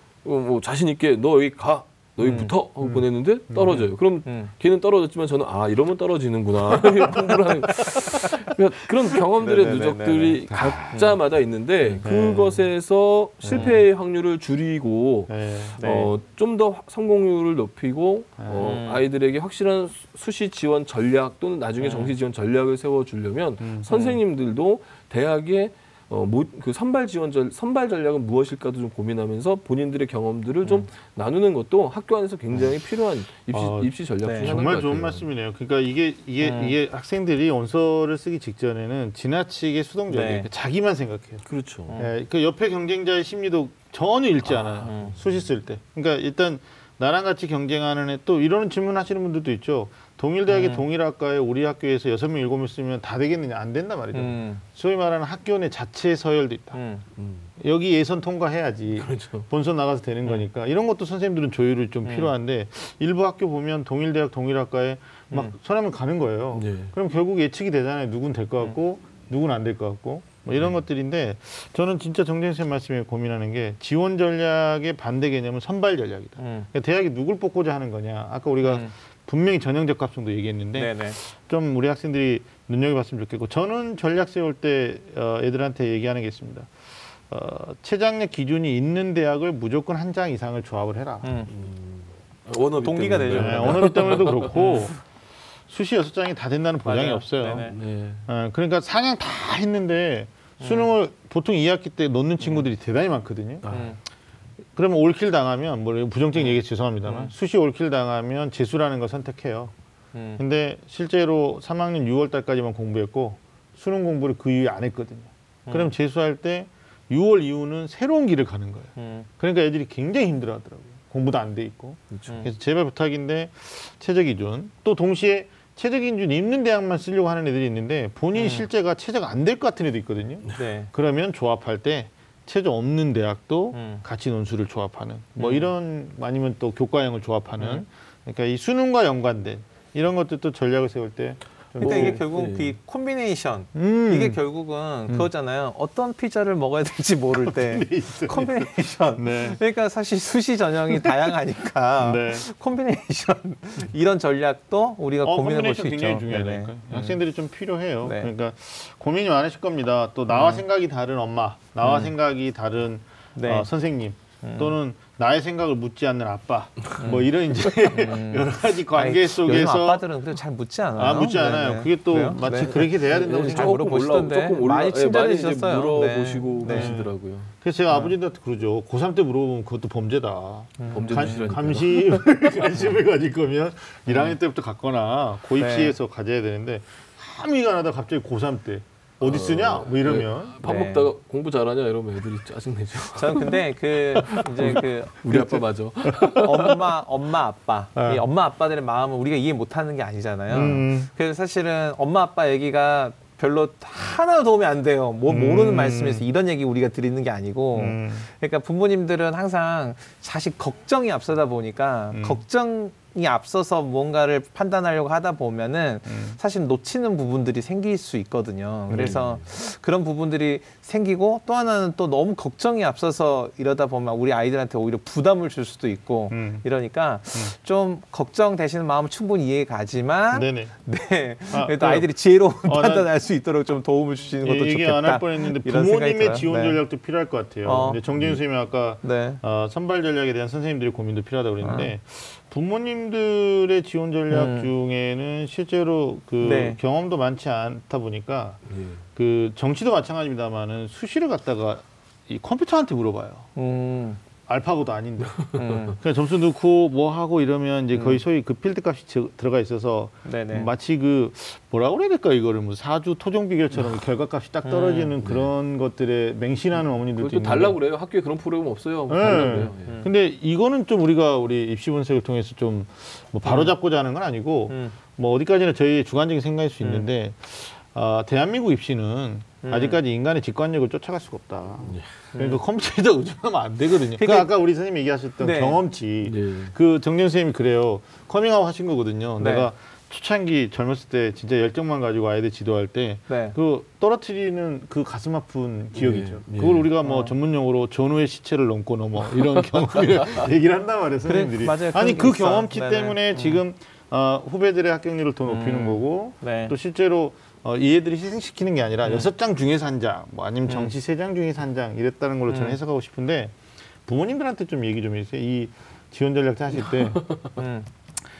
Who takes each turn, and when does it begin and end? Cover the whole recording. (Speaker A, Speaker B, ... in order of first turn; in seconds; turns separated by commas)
Speaker A: 0.2-35.2, Speaker B: 2.2-2.5, Speaker C: 2.8-3.8, Speaker B: 4.2-4.5, Speaker B: 9.4-10.4, Speaker C: 10.5-11.0, Speaker C: 12.0-12.7, Speaker C: 13.4-13.7, Speaker B: 13.5-13.8, Speaker C: 15.3-15.8, Speaker B: 15.8-16.1, Speaker C: 18.4-18.8, Speaker B: 18.6-19.0, Speaker B: 21.8-22.1, Speaker C: 23.6-23.9, Speaker B: 23.9-24.2, Speaker C: 33.5-41.4, Speaker B: 34.2-34.6, Speaker B: 36.4-36.7, Speaker B: 40.1-40.5, Speaker A: 41.4-42.0, Speaker B: 41.9-42.1, Speaker C: 42.0-56.8, Speaker B: 44.5-45.1, Speaker B: 50.5-50.8, Speaker B: 54.1-54.6, Speaker B: 56.7-57.0, Speaker A: 57.1-57.5, Speaker C: 57.6-86.7, Speaker A: 59.0-59.5, Speaker B: 62.0-62.3, Speaker A: 66.5-66.9, Speaker B: 76.4-76.7, Speaker B: 78.6-78.9, Speaker B: 80.7-81.2, Speaker C: 87.3-91.3, Speaker B: 91.2-91.5, Speaker A: 91.5-94.6, Speaker B: 92.8-94.9, Speaker C: 93.3-95.0, Speaker C: 95.7-97.7, Speaker B: 96.8-97.8, Speaker A: 97.7-98.2, Speaker C: 98.2-103.6, Speaker B: 100.6-100.9, Speaker B: 102.4-102.7, Speaker A: 103.6-104.0, Speaker B: 103.7-104.0, Speaker C: 104.8-109.7, Speaker B: 106.3-107.3, Speaker B: 110.1-110.4, Speaker C: 110.4-142.2, Speaker B: 115.7-115.9, Speaker B: 119.0-119.3, Speaker B: 128.3-128.7, Speaker B: 130.6-130.9, Speaker B: 133.7-134.0, Speaker B: 135.4-135.7, Speaker B: 137.6-137.8, Speaker B: 141.8-157.2, Speaker A: 141.8-142.7, Speaker C: 143.7-144.4, Speaker C: 147.5-149.6, Speaker C: 152.0-152.4, Speaker C: 155.2-170.0, Speaker B: 158.0-158.3, Speaker B: 160.3-160.6, Speaker B: 161.8-162.1, Speaker B: 163.3-163.7, Speaker B: 164.4-164.8, Speaker B: 167.0-167.3, Speaker B: 167.9-176.9, Speaker C: 171.0-173.8, Speaker A: 172.7-177.5, Speaker C: 176.6-190.5, Speaker B: 180.8-181.5, Speaker A: 180.9-182.2, Speaker B: 184.1-184.4, Speaker B: 185.6-185.9, Speaker A: 189.2-193.5, Speaker B: 190.6-191.1, Speaker B: 193.1-195.6, Speaker C: 194.2-194.8, Speaker A: 194.3-196.8, Speaker C: 196.1-196.4, Speaker B: 196.3-236.8, Speaker C: 197.9-198.2, Speaker C: 200.5-201.1, Speaker C: 205.3-206.2, Speaker C: 207.7-208.3, Speaker C: 212.1-212.4, Speaker C: 216.1-216.4, Speaker C: 218.9-219.2, Speaker A: 218.9-219.4, Speaker C: 226.3-226.6, Speaker C: 230.3-230.7, Speaker C: 231.5-232.1, Speaker C: 232.6-233.1, Speaker C: 234.4-248.6, Speaker B: 237.6-238.4, Speaker B: 239.0-239.4, Speaker B: 241.6-241.9, Speaker B: 244.3-244.7, Speaker B: 246.4-246.8, Speaker A: 248.7-249.0, Speaker C: 249.2-253.5, Speaker B: 253.6-254.2, Speaker C: 254.5-267.8, Speaker A: 255.4-255.7, Speaker B: 255.6-256.0, Speaker B: 257.9-258.2, Speaker B: 260.2-260.7, Speaker B: 264.6-265.1, Speaker A: 265.2-265.5, Speaker A: 267.2-270.0, Speaker C: 269.1-313.5, Speaker B: 269.8-270.1, Speaker B: 273.4-273.7, Speaker B: 274.7-274.9, Speaker B: 279.6-280.0, Speaker A: 281.8-282.1, Speaker B: 282.3-282.6, Speaker B: 284.2-284.5, Speaker B: 285.4-285.8, Speaker A: 286.2-286.7, Speaker B: 289.4-289.7, Speaker B: 293.3-293.6, Speaker A: 295.9-296.9, Speaker B: 297.0-297.3, Speaker A: 299.9-300.4, Speaker B: 301.2-303.6, Speaker B: 305.5-306.7, Speaker B: 309.0-309.3, Speaker B: 312.5-312.8, Speaker C: 314.1-317.2, Speaker A: 317.1-317.5, Speaker B: 317.6-317.9